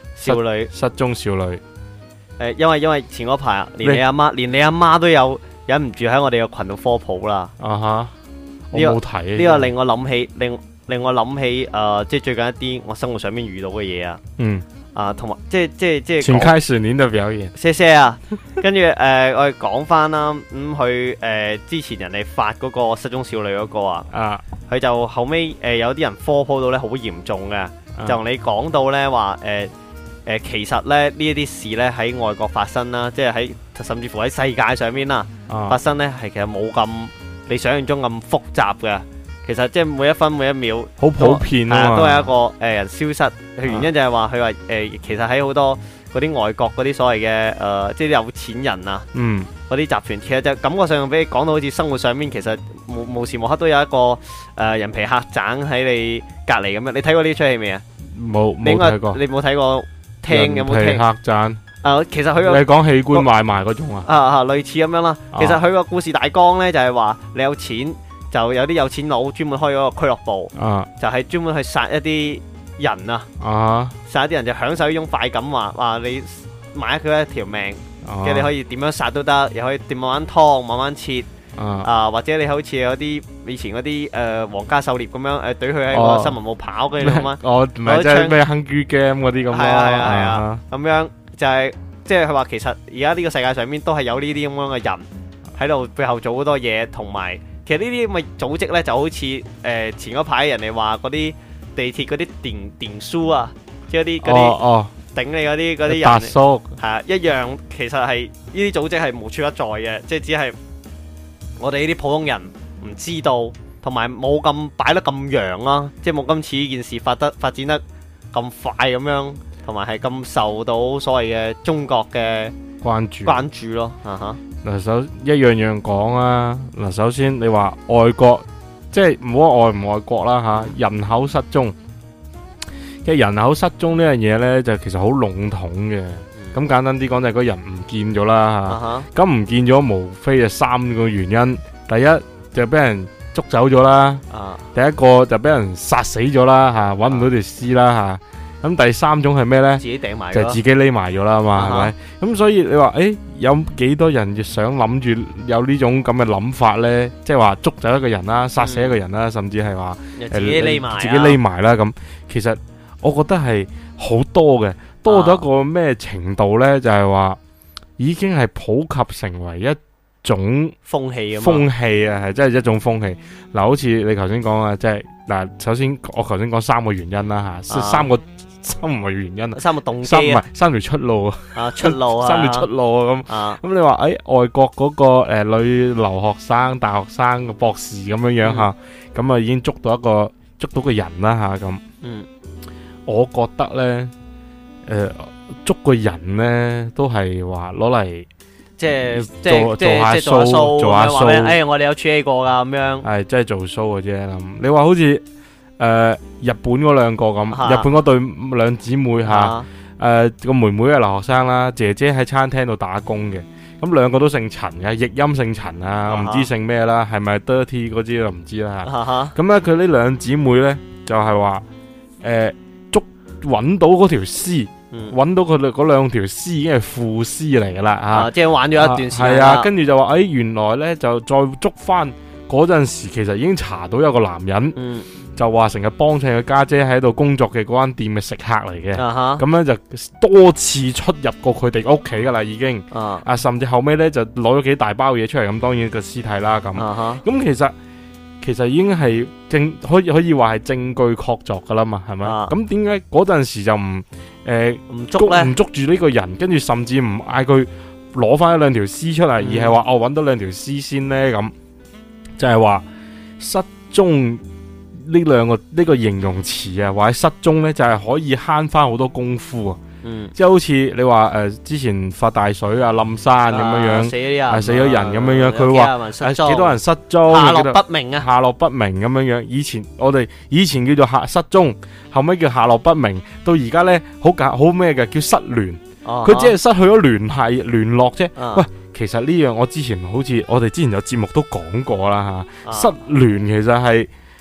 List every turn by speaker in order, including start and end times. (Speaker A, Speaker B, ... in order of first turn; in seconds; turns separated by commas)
Speaker A: 0.1-0.7, Speaker B: 0.2-1.6, Speaker A: 2.4-7.5, Speaker B: 7.6-8.1, Speaker B: 8.7-9.7, Speaker A: 8.7-14.2, Speaker B: 14.4-14.6, Speaker A: 14.9-16.5, Speaker B: 16.2-17.5, Speaker A: 17.5-24.1, Speaker B: 24.1-24.4, Speaker A: 24.7-29.7, Speaker B: 27.9-28.2, Speaker A: 30.2-49.1, Speaker B: 35.5-35.8, Speaker B: 41.0-42.3, Speaker B: 43.6-43.9, Speaker B: 49.1-49.5, Speaker A: 49.7-57.8, Speaker B: 58.1-59.2, Speaker A: 58.6-61.0, Speaker B: 60.3-61.6, Speaker A: 61.8-63.2, Speaker B: 62.4-64.1, Speaker A: 64.0-73.3, Speaker B: 65.3-65.6, Speaker B: 70.5-70.9, Speaker B: 73.4-74.0, Speaker A: 74.0-81.3, Speaker B: 78.0-78.5, Speaker B: 81.5-81.9, Speaker A: 81.8-88.4, Speaker B: 85.9-86.4, Speaker B: 87.0-90.6, Speaker A: 89.5-104.6, Speaker B: 104.2-104.9, Speaker A: 105.1-110.6, Speaker B: 105.9-106.8, Speaker A: 111.6-122.5, Speaker B: 122.8-123.5, Speaker A: 123.2-124.4, Speaker B: 124.6-131.7, Speaker B: 133.0-144.2, Speaker A: 138.7-139.1, Speaker A: 144.3-144.7, Speaker B: 144.7-167.4, Speaker A: 149.8-150.6, Speaker A: 151.5-151.9, Speaker A: 158.6-159.0, Speaker A: 160.2-161.4, Speaker A: 165.1-165.4, Speaker B: 168.0-170.8, Speaker A: 170.8-171.7, Speaker B: 171.4-191.8, Speaker A: 177.7-178.1, Speaker A: 179.5-180.4, Speaker A: 181.5-182.7, Speaker A: 183.3-183.6, Speaker A: 188.4-188.7, Speaker A: 192.0-192.3, Speaker B: 193.1-194.1, Speaker B: 194.8-198.3, Speaker A: 198.8-203.1, Speaker B: 199.1-201.6, Speaker B: 203.0-205.2, Speaker B: 205.8-221.6, Speaker A: 207.5-207.9, Speaker A: 209.2-209.7, Speaker A: 216.1-216.5, Speaker A: 218.8-219.3, Speaker B: 222.2-234.8, Speaker A: 224.9-225.2, Speaker A: 228.1-229.7, Speaker A: 234.7-235.1, Speaker B: 235.3-247.7, Speaker A: 238.9-239.4, Speaker A: 242.9-243.2, Speaker A: 246.7-247.2, Speaker B: 248.4-261.5, Speaker A: 252.2-252.5, Speaker A: 254.9-255.5, Speaker A: 259.4-259.8, Speaker B: 262.4-262.8, Speaker B: 263.4-269.8, Speaker A: 270.0-270.3, Speaker B: 270.4-294.1, Speaker A: 273.5-278.2, Speaker A: 286.0-286.5, Speaker A: 288.4-288.6, Speaker A: 292.6-293.0